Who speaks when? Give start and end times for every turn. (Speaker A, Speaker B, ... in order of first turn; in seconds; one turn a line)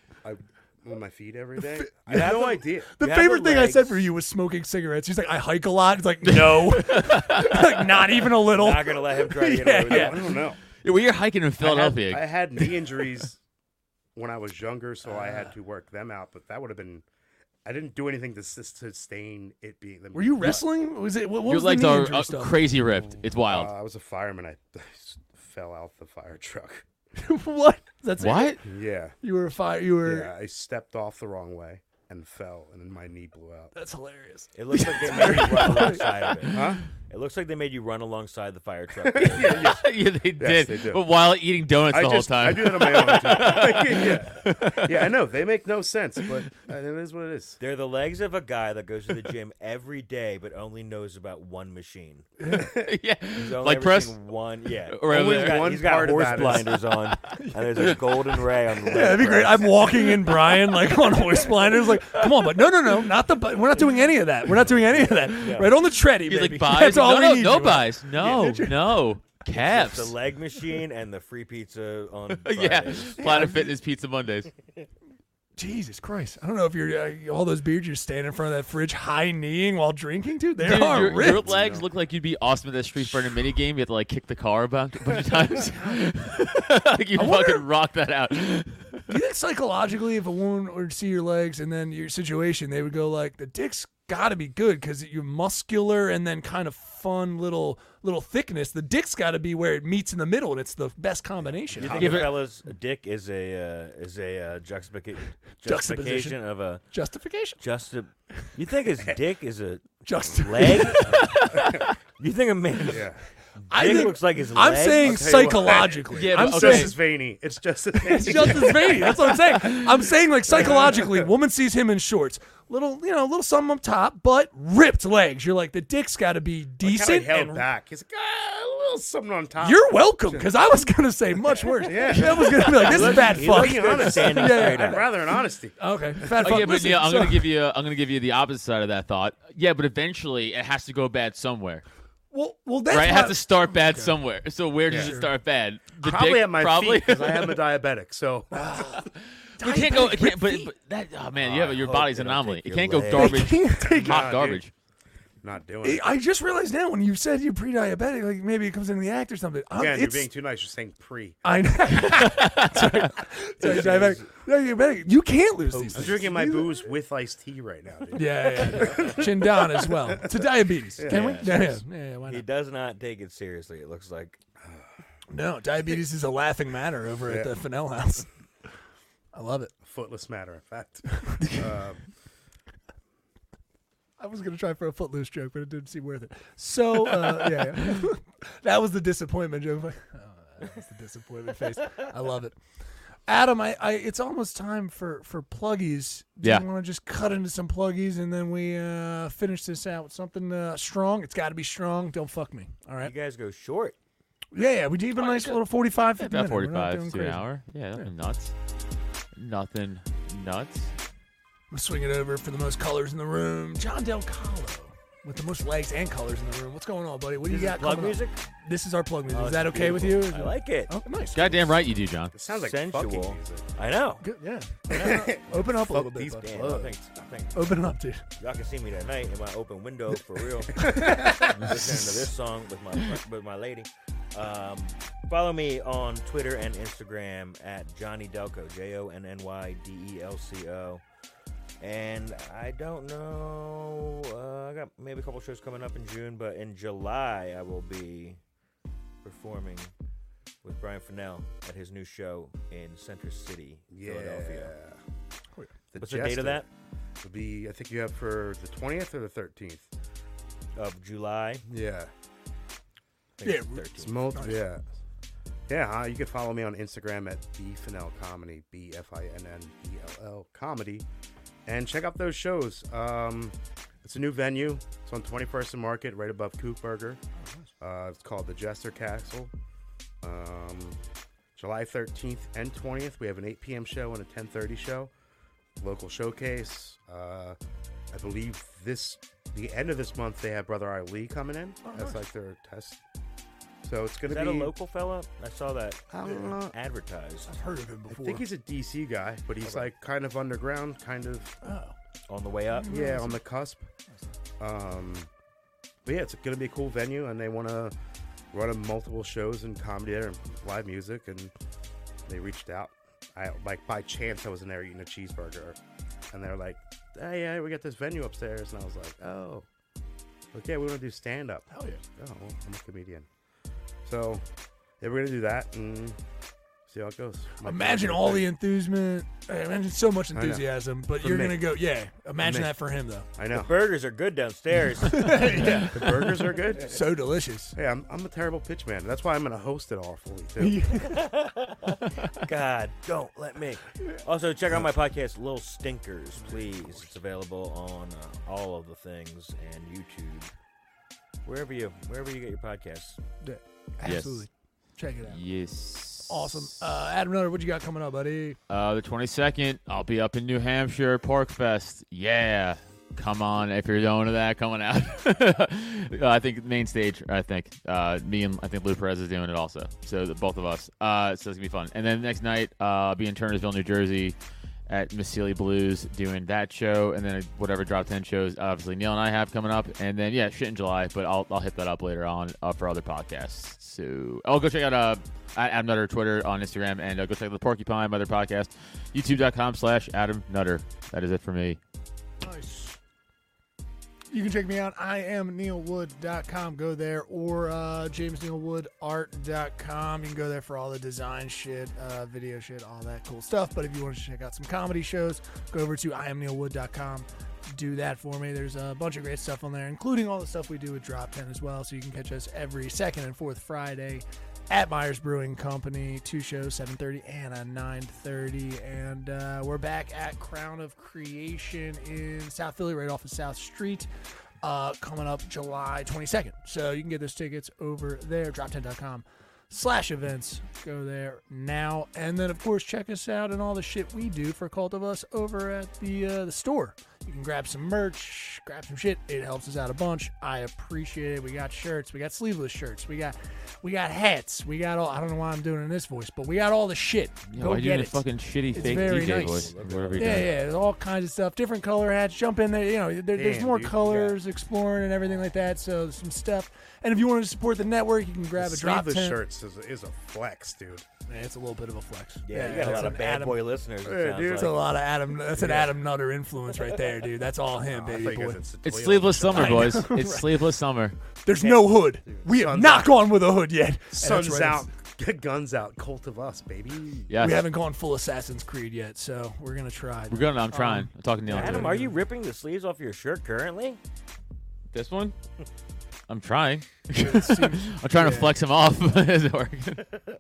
Speaker A: 0.2-2.9
Speaker B: 1.8-10.2
Speaker C: 2.1-4.1
Speaker D: 6.3-7.8
Speaker C: 8.3-10.3
Speaker A: 9.7-10.6
Speaker D: 10.8-12.9
Speaker A: 11.6-13.4
Speaker A: 14.2-17.0
Speaker B: 15.1-15.5
Speaker A: 17.6-20.7
Speaker B: 20.1-22.6
Speaker D: 21.5-23.7
Speaker A: 23.1-26.9
Speaker B: 27.2-28.6
Speaker D: 28.2-28.6
Speaker A: 28.6-29.2
Speaker B: 29.2-30.3
Speaker A: 30.0-33.7
Speaker B: 33.8-36.3
Speaker C: 34.5-39.8
Speaker A: 36.5-36.8
Speaker A: 39.0-39.9
Speaker D: 39.4-45.1
Speaker A: 40.4-41.0
Speaker A: 41.9-47.6
Speaker C: 47.6-52.3
Speaker B: 52.4-52.7
Speaker A: 52.5-52.8
Speaker D: 52.7-54.2
Speaker C: 53.3-59.9
Speaker D: 54.9-55.9
Speaker A: 55.1-56.8
Speaker B: 57.3-58.0
Speaker B: 58.9-68.9
Speaker D: 62.1-62.6
Speaker C: 65.2-65.8
Speaker D: 66.2-70.1
Speaker C: 69.5-73.3
Speaker D: 72.4-74.5
Speaker B: 73.2-73.7
Speaker B: 75.6-81.5
Speaker D: 80.6-89.1
Speaker A: 81.2-81.9
Speaker B: 85.7-86.0
Speaker B: 87.2-87.7
Speaker B: 89.1-102.3
Speaker A: 101.7-102.3
Speaker C: 101.8-106.8
Speaker D: 102.0-102.3
Speaker B: 105.6-107.6
Speaker C: 107.6-111.4
Speaker B: 110.0-111.3
Speaker A: 111.0-111.9
Speaker D: 111.4-111.8
Speaker C: 112.2-115.7
Speaker A: 112.9-113.2
Speaker B: 113.7-117.0
Speaker A: 115.0-119.8
Speaker D: 116.1-117.0
Speaker B: 118.0-127.7
Speaker A: 120.5-121.3
Speaker A: 126.8-130.5
Speaker B: 129.6-135.2
Speaker A: 131.5-136.6
Speaker C: 132.7-135.1
Speaker B: 135.8-137.5
Speaker D: 136.4-141.8
Speaker B: 142.3-144.2
Speaker D: 142.9-147.6
Speaker A: 144.9-145.2
Speaker B: 144.9-145.3
Speaker A: 146.0-149.1
Speaker B: 148.5-150.7
Speaker D: 149.6-154.7
Speaker C: 151.4-153.5
Speaker B: 153.1-154.3
Speaker A: 153.8-154.7
Speaker A: 155.4-156.1
Speaker B: 155.8-160.3
Speaker A: 159.8-161.4
Speaker B: 161.4-166.8
Speaker D: 162.1-163.0
Speaker C: 163.6-164.3
Speaker A: 163.7-163.9
Speaker A: 165.7-170.4
Speaker C: 165.9-166.3
Speaker B: 168.2-172.4
Speaker A: 171.0-171.7
Speaker C: 171.0-174.4
Speaker B: 175.3-178.3
Speaker A: 177.2-177.6
Speaker B: 179.3-179.7
Speaker A: 179.8-182.1
Speaker B: 184.2-192.6
Speaker B: 193.3-203.1
Speaker C: 203.0-204.0
Speaker B: 204.5-208.1
Speaker D: 205.2-205.6
Speaker D: 206.2-208.5
Speaker D: 209.3-210.9
Speaker B: 211.7-221.6
Speaker C: 217.4-218.4
Speaker C: 219.3-220.9
Speaker D: 221.3-222.3
Speaker A: 222.3-223.7
Speaker C: 222.5-224.2
Speaker B: 224.2-226.5
Speaker A: 224.9-227.2
Speaker C: 226.4-227.8
Speaker B: 227.5-228.2
Speaker C: 228.4-241.0
Speaker A: 230.8-232.0
Speaker B: 230.8-231.4
Speaker C: 241.8-248.4
Speaker C: 249.2-249.9
Speaker C: 250.6-254.8
Speaker A: 253.9-255.0
Speaker A: 255.9-256.7
Speaker C: 256.0-256.7
Speaker A: 257.2-259.9
Speaker C: 260.8-261.6
Speaker A: 261.7-262.1
Speaker C: 263.4-264.3
Speaker B: 263.4-264.7
Speaker A: 264.0-264.8
Speaker A: 265.7-271.1
Speaker A: 271.7-277.2
Speaker A: 277.8-279.5
Speaker A: 280.2-281.0
Speaker A: 281.6-285.1
Speaker A: 285.8-287.6
Speaker A: 288.1-293.0
Speaker B: 291.9-292.2
Speaker A: 293.8-294.7
Speaker C: 294.2-297.5
Speaker A: 296.1-296.7
Speaker B: 297.5-298.4
Speaker A: 298.1-301.6
Speaker C: 299.6-299.9
Speaker B: 301.6-301.9
Speaker C: 302.3-302.9
Speaker B: 302.7-303.4
Speaker A: 302.9-303.9
Speaker A: 304.6-305.3
Speaker A: 306.1-307.9
Speaker A: 308.5-311.5
Speaker A: 312.3-315.8
Speaker A: 316.3-319.7
Speaker A: 320.5-323.3
Speaker B: 321.7-322.0
Speaker A: 324.1-324.4
Speaker A: 325.0-326.2
Speaker A: 326.9-328.5
Speaker B: 327.6-333.3
Speaker A: 330.3-331.7
Speaker A: 332.4-332.8
Speaker A: 333.4-333.8
Speaker C: 333.5-335.7
Speaker B: 335.1-337.8
Speaker A: 335.6-337.0
Speaker A: 337.8-341.1
Speaker B: 340.6-341.2
Speaker C: 341.1-350.5
Speaker B: 346.4-347.0
Speaker C: 351.4-353.2
Speaker B: 353.4-355.4
Speaker D: 354.1-354.5
Speaker D: 355.3-356.9
Speaker B: 356.3-358.6
Speaker D: 358.7-374.4
Speaker D: 374.9-391.8
Speaker B: 392.4-393.0
Speaker B: 394.3-424.1
Speaker B: 424.6-459.4
Speaker D: 447.5-450.5
Speaker A: 448.7-450.6
Speaker A: 453.3-454.4
Speaker A: 458.6-461.1
Speaker B: 461.3-463.6
Speaker C: 462.4-464.8
Speaker A: 462.8-463.1
Speaker A: 464.0-464.8
Speaker B: 464.5-468.6
Speaker A: 465.6-465.9
Speaker A: 467.9-470.1
Speaker D: 468.8-471.2
Speaker B: 469.5-470.6
Speaker B: 471.4-474.9
Speaker A: 471.6-473.3
Speaker A: 474.1-477.3
Speaker D: 477.3-477.7
Speaker B: 477.4-482.2
Speaker D: 480.3-482.0
Speaker C: 481.5-484.0
Speaker D: 484.9-485.4
Speaker D: 486.3-490.1
Speaker B: 487.1-488.5